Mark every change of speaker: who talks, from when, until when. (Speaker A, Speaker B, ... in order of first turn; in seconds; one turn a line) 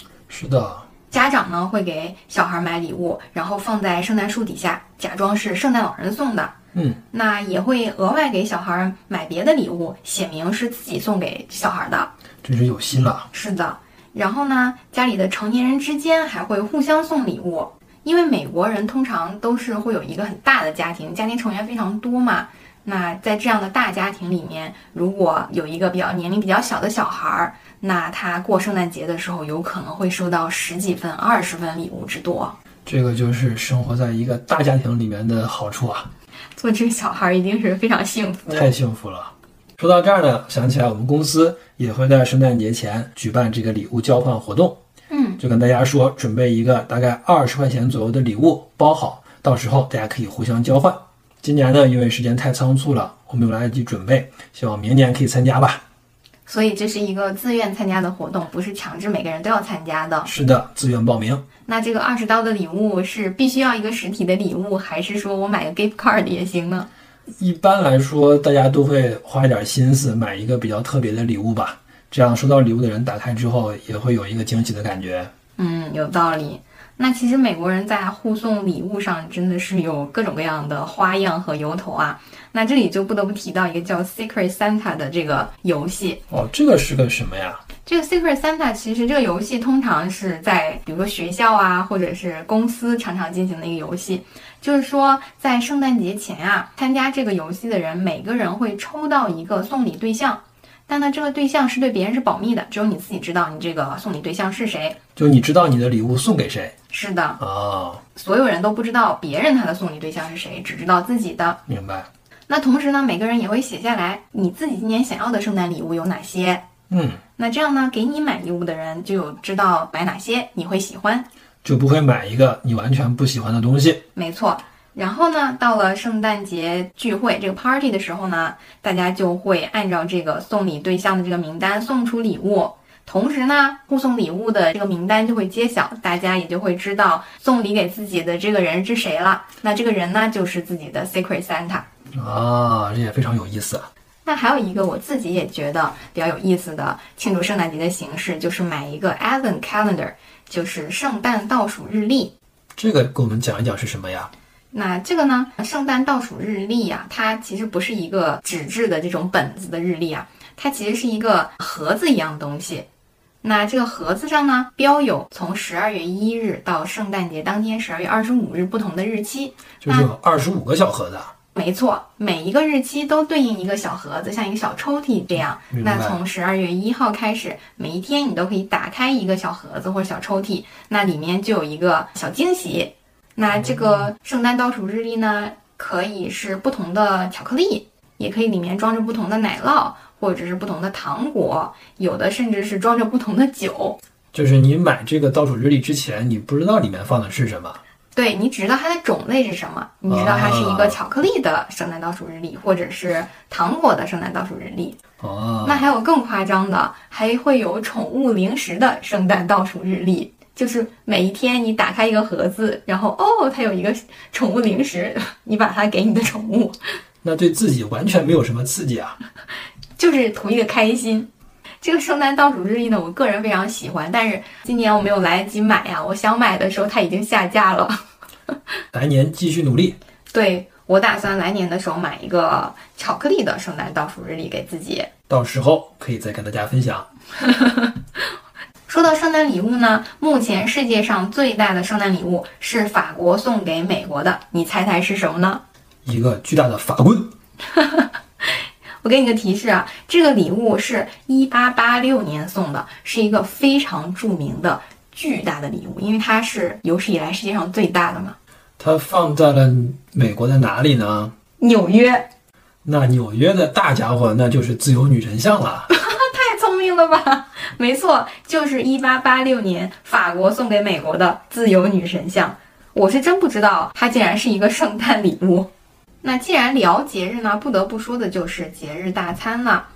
Speaker A: 0.3-0.9
Speaker B: 1.1-6.5
Speaker A: 6.7-7.0
Speaker B: 7.1-12.1
Speaker A: 12.4-13.3
Speaker B: 13.3-32.6
Speaker A: 32.9-36.1
Speaker B: 36.6-38.7
Speaker A: 38.5-44.8
Speaker B: 45.1-45.4
Speaker A: 45.4-55.8
Speaker B: 56.5-60.3
Speaker A: 60.2-61.4
Speaker B: 61.7-66.9
Speaker A: 67.4-75.3
Speaker B: 75.6-86.2
Speaker A: 86.3-87.6
Speaker B: 87.9-105.0
Speaker A: 105.2-106.7
Speaker B: 106.9-107.4
Speaker A: 107.4-108.0
Speaker B: 108.1-111.6
Speaker A: 111.7-112.1
Speaker B: 112.5-116.7
Speaker A: 116.9-117.2
Speaker B: 117.4-121.3
Speaker A: 121.6-124.0
Speaker B: 124.2-141.9
Speaker A: 142.1-143.9
Speaker B: 144.3-152.3
Speaker A: 152.8-154.3
Speaker B: 154.7-162.9
Speaker B: 163.4-170.1
Speaker A: 169.8-171.3
Speaker B: 171.6-194.0
Speaker A: 175.7-176.2
Speaker A: 183.5-184.1
Speaker A: 194.3-197.8
Speaker B: 198.2-205.0
Speaker A: 200.1-201.0
Speaker A: 205.2-205.9
Speaker B: 205.6-216.8
Speaker A: 217.2-219.2
Speaker B: 220.0-221.3
Speaker B: 221.8-228.0
Speaker A: 228.9-230.0
Speaker B: 230.3-235.1
Speaker A: 235.3-237.1
Speaker B: 237.4-238.0
Speaker B: 238.9-245.6
Speaker A: 246.1-247.3
Speaker B: 247.7-258.4
Speaker A: 258.8-261.4
Speaker B: 261.6-262.3
Speaker A: 262.8-265.9
Speaker B: 265.9-275.7
Speaker B: 276.2-279.9